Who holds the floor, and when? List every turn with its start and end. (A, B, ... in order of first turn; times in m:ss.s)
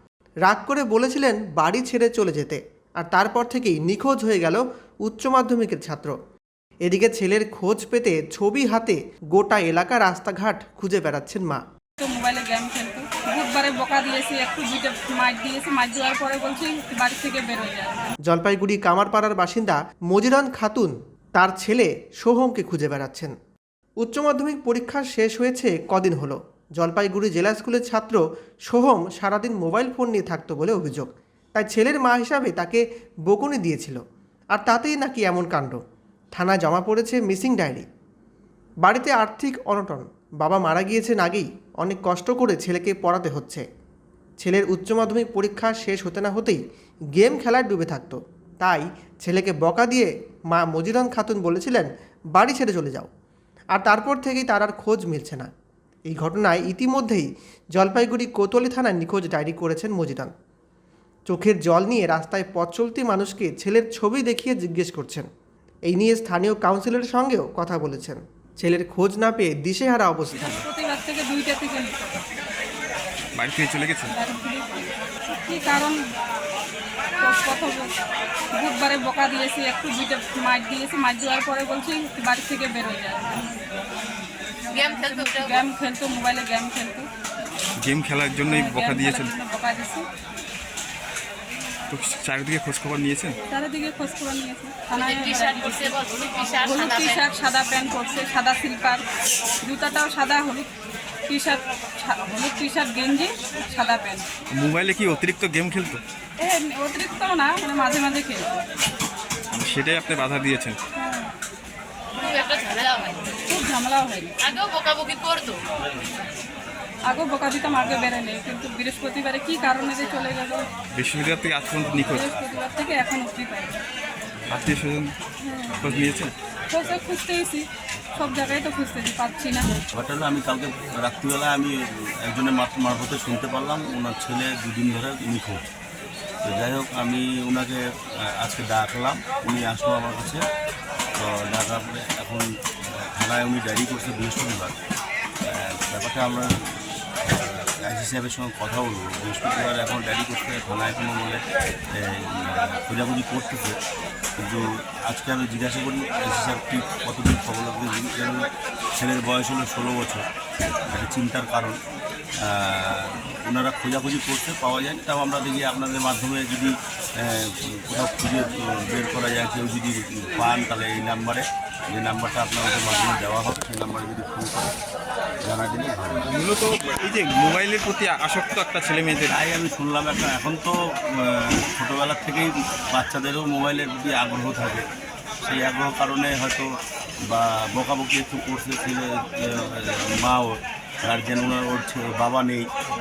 0:00.4-0:06.1 A
0:06.8-0:11.6 A
0:12.0-0:18.1 B
0:18.2-0:23.3 A
0:24.0-0:34.0 A
0:34.5-0:35.8 A
0:36.4-0:37.8 A
0:38.8-0:43.6 A
0:44.4-0:46.6 A
0:47.1-0:53.1 A
0:53.7-0:55.5 A
0:56.1-1:00.3 A
1:01.3-1:05.3 A
1:05.9-1:10.6 A
1:10.3-1:12.2 B
1:13.3-1:14.1 C
1:14.1-1:16.0 B
1:17.2-1:17.9 B
1:18.5-1:23.8 B
1:24.6-1:27.1 B
1:24.7-1:25.6 D
1:27.8-1:29.3 C
1:28.4-1:30.0 B
1:31.9-1:33.4 C
1:33.5-1:36.0 B
1:34.9-1:37.2 D
1:36.6-1:39.0 B
1:39.6-1:40.7 B
1:41.3-1:44.2 B
1:44.5-1:46.0 C
1:46.4-1:48.6 B
1:49.5-1:50.8 C
1:51.0-1:51.3 B
1:52.2-1:53.4 D
1:53.4-1:54.5 B
1:54.4-1:55.6 D
1:57.1-2:00.7 B
2:00.9-2:02.3 C
2:02.0-2:03.7 B
2:04.5-2:05.1 C
2:05.4-2:05.8 B
2:05.8-2:06.3 C
2:06.7-2:09.7 B
2:09.9-2:15.6 E
2:16.4-2:20.4 E
2:21.2-2:24.8 E
2:25.4-2:33.8 E
2:34.4-2:38.4 E
2:39.0-2:40.2 E
2:40.9-2:41.8 E
2:42.4-2:54.7 E
2:55.4-2:56.3 E
2:56.3-2:59.3 C
2:59.3-3:04.8 E
3:05.4-3:06.7 E
3:07.2-3:12.7 E